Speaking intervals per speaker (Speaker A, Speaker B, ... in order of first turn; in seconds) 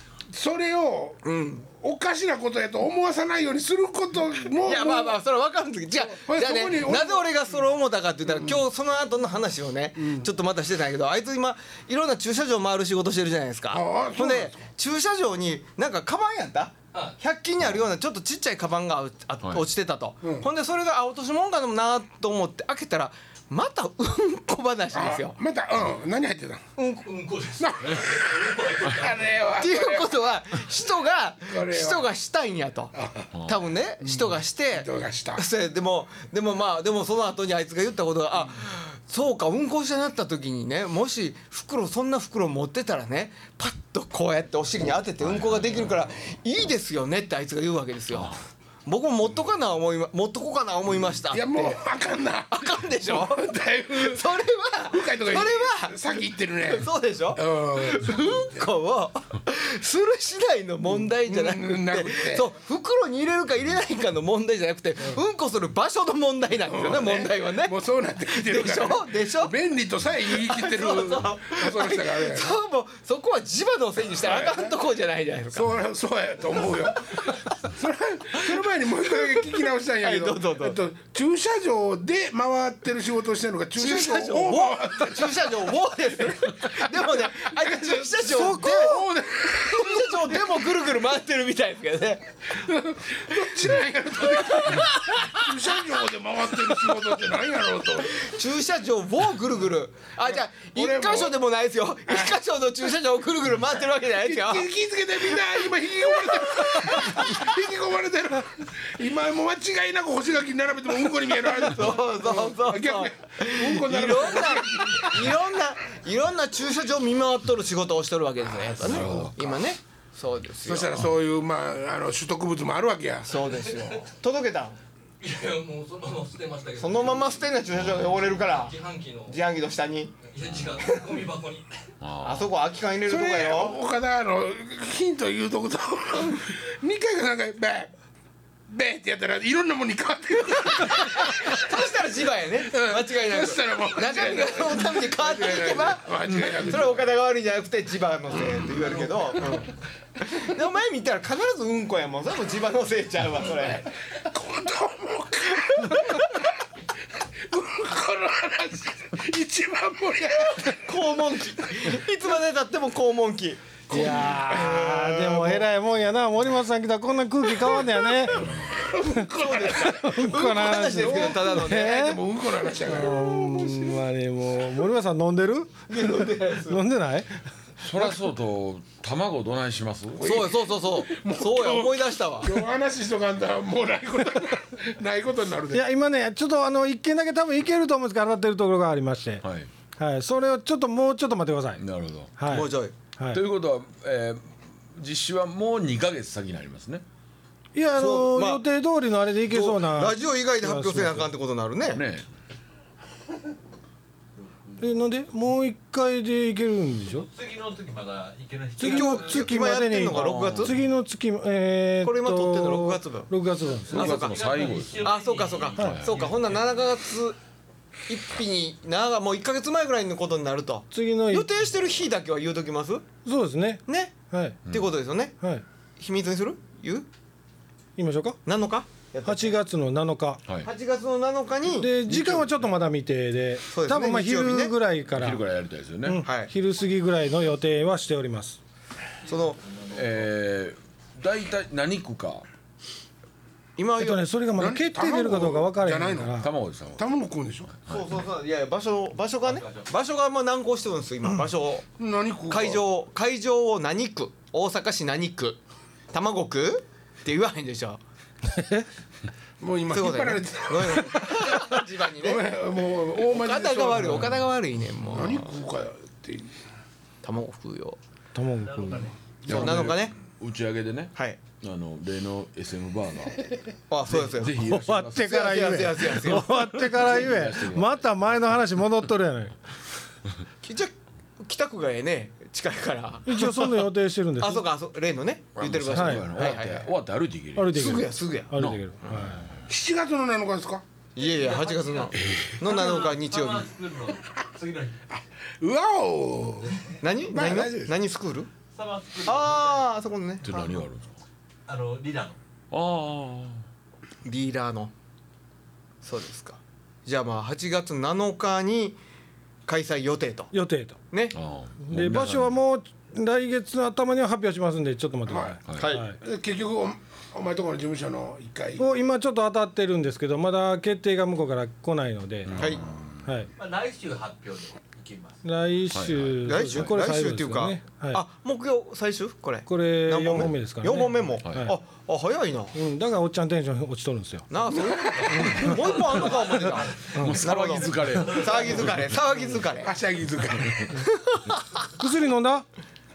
Speaker A: 0.3-5.2, 6.1-7.3, 8.2-8.6, 10.0-10.3, 13.7-14.6, 20.2-20.5, 24.9-26.7, 27.6-30.1, 31.4-32.1, 32.9-33.3, 34.0-35.4, 51.3-54.3, 54.9-58.7, 60.9-62.5, 66.7-72.5, 74.1-74.8, 75.5-85.7, 86.7-90.7, 92.5-98.3, 100.7-101.4, 104.1-115.4, 118.8-119.6, 120.6-123.5, 133.1-137.9, 138.7-141.8, 142.7-147.1, 148.4-149.7, 153.5-156.5, 157.4-161.8, 163.9-164.9, 168.7-170.1, 171.1-173.2, 180.2-185.8, 244.6-246.3, 247.0-247.7, 252.0-252.8, 259.6-264.4, 265.1-266.5, 289.7-290.8, 295.1-297.9, 315.3-315.6, 316.2-318.9, 334.7-335.5, 339.8-341.1
Speaker B: 1.2-1.7, 4.6-25.4, 26.8-27.0, 29.5-32.9, 33.5-51.8, 52.5-69.5, 70.3-75.7, 77.1-77.5, 79.0-80.8, 83.8-89.0, 89.5-92.5, 94.2-95.5, 98.1-107.5, 111.4-120.9, 123.2-124.8, 126.8-128.7, 129.2-130.2, 132.2-133.8, 140.7-153.9, 155.6-156.4, 160.5-165.6, 168.9-172.2, 172.9-174.0, 175.9-176.8, 180.2-182.6, 192.5-192.9, 198.0-198.6, 199.5-202.0, 208.8-210.8, 212.0-213.3, 213.9-217.4, 218.1-223.1, 223.9-224.1, 224.7-225.3, 226.0-227.1, 228.4-229.6, 230.6-231.9, 233.7-234.7, 236.2-236.5, 239.2-239.6, 243.8-244.2, 247.8-251.9, 252.5-255.6, 256.1-258.0, 259.9-262.5, 263.3-265.5, 267.2-268.0, 269.4-270.1, 273.9-276.9, 280.6-286.9, 287.7-288.5, 291.1-293.7, 297.0-298.5, 299.2-300.8, 304.2-304.9, 306.0-309.0, 309.6-310.5, 315.7-316.1, 322.6-322.8, 326.4-332.8, 334.5-339.9, 340.9-341.9
Speaker C: 27.0-29.5, 125.2-127.5, 128.3-129.3, 130.2-131.7
Speaker D: 27.8-28.1, 33.3-33.6, 45.2-46.0, 48.1-48.4, 118.8-119.3, 127.7-128.3, 130.4-130.8, 132.0-132.5, 168.3-168.7, 177.8-180.2, 189.4-189.7, 191.8-192.3, 193.3-197.0, 201.9-202.2, 210.1-210.8, 213.9-215.1, 215.8-216.5, 232.1-232.6, 235.1-236.2, 239.9-242.4, 246.4-247.0, 247.7-248.2, 269.4-275.7, 276.8-278.5, 285.6-287.9, 288.5-289.6, 292.1-292.6, 300.4-301.2, 302.7-303.6, 311.3-312.6, 315.7-315.9, 322.4-323.3, 325.9-326.9, 337.0-339.1, 340.6-340.9
Speaker E: 88.2-89.0, 163.9-168.6, 169.1-172.2, 172.8-177.3, 185.7-191.8, 192.4-193.4, 197.7-201.3, 204.8-207.3, 208.8-214.2, 220.9-221.5, 223.2-224.6, 227.9-228.4, 229.2-230.4, 231.7-235.4, 236.0-238.6, 244.0-246.5, 258.5-258.9, 268.3-269.1, 274.6-279.6, 283.2-284.6, 285.9-286.3, 287.6-289.4, 310.5-311.0, 311.8-316.2, 318.8-323.5, 325.4-328.2, 329.7-331.8, 332.7-334.5, 337.1-337.4, 341.9-342.6
Speaker F: 204.4-204.8, 207.2-209.5, 214.1-216.6, 239.2-240.2, 249.4-249.9, 268.6-269.1, 291.2-295.0, 298.7-299.9, 301.7-302.4, 323.6-325.4, 335.4-337.1, 338.2-338.6